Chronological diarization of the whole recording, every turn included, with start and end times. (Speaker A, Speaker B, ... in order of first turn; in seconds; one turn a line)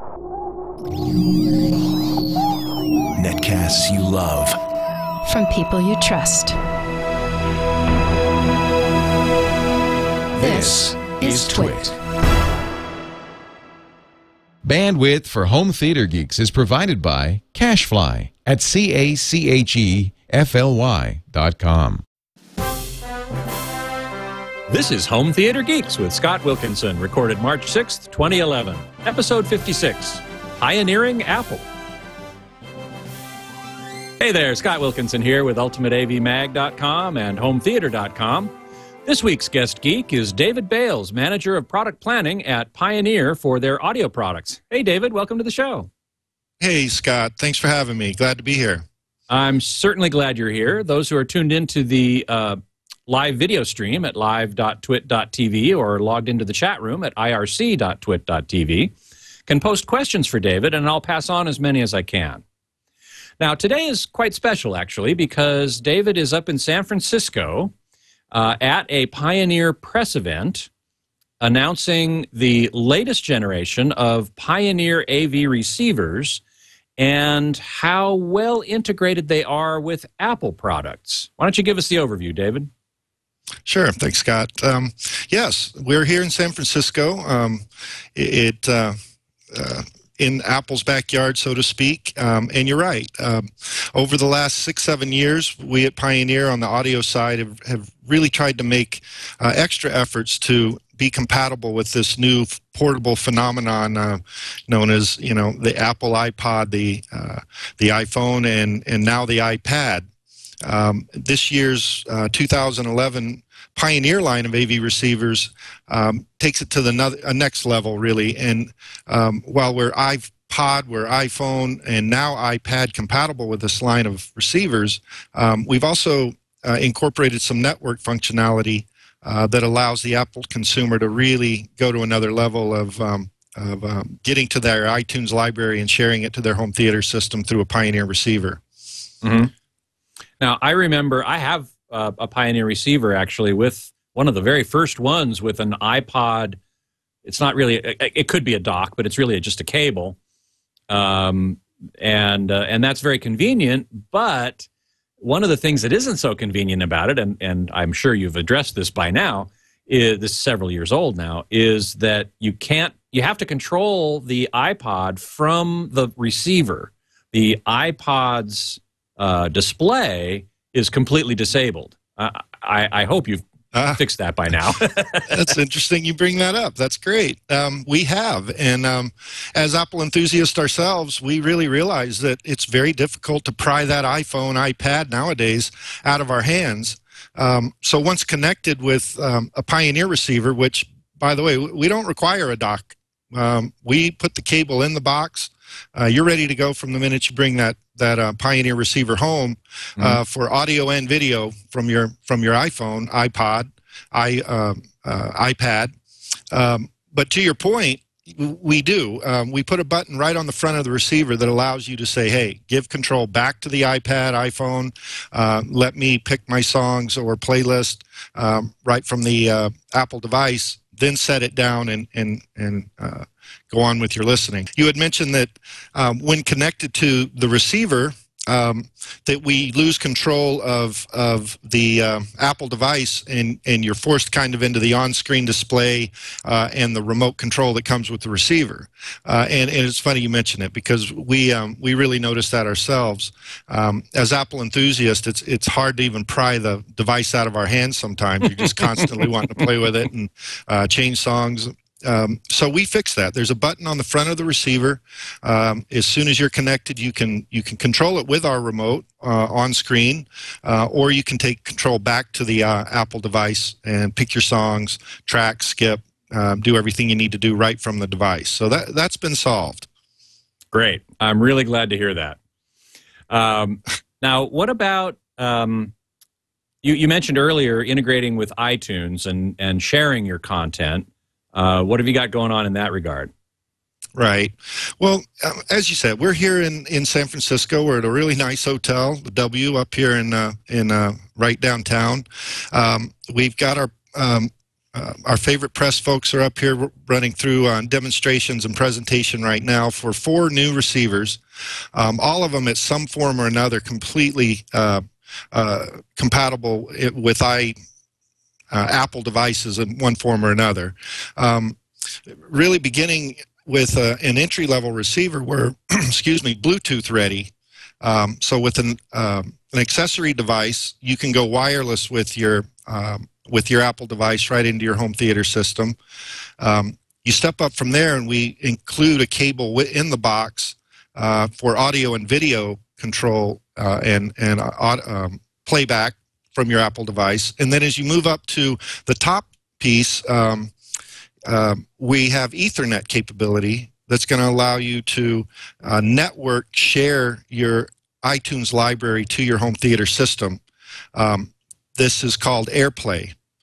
Speaker A: 3.1-4.6
Speaker B: 5.3-6.6
Speaker A: 10.3-12.0
Speaker B: 10.4-11.9
Speaker C: 14.6-22.0
Speaker D: 24.7-31.7
Speaker D: 34.2-38.5
Speaker D: 39.1-45.9
Speaker E: 46.6-48.9
Speaker D: 49.3-58.9
Speaker D: 59.5-62.4
Speaker D: 63.4-67.7
Speaker D: 68.3-70.7
Speaker D: 71.4-76.4
Speaker D: 77.0-82.7
Speaker E: 83.7-89.0
Speaker E: 89.5-110.1
Speaker E: 110.6-138.6
Speaker D: 139.2-139.5
Speaker D: 140.4-146.6
Speaker D: 147.2-150.2
Speaker D: 150.9-154.7
Speaker D: 155.2-173.4
Speaker E: 173.7-174.0
Speaker D: 173.9-175.4
Speaker E: 175.3-205.9
Speaker E: 206.5-269.9
Speaker D: 270.7-272.4
Speaker D: 273.3-275.9
Speaker D: 276.8-283.3
Speaker E: 284.2-301.4
Speaker E: 301.9-307.8
Speaker E: 308.7-311.8
Speaker E: 312.3-326.0
Speaker E: 326.6-340.7
Speaker E: 341.5-350.6
Speaker E: 351.1-353.3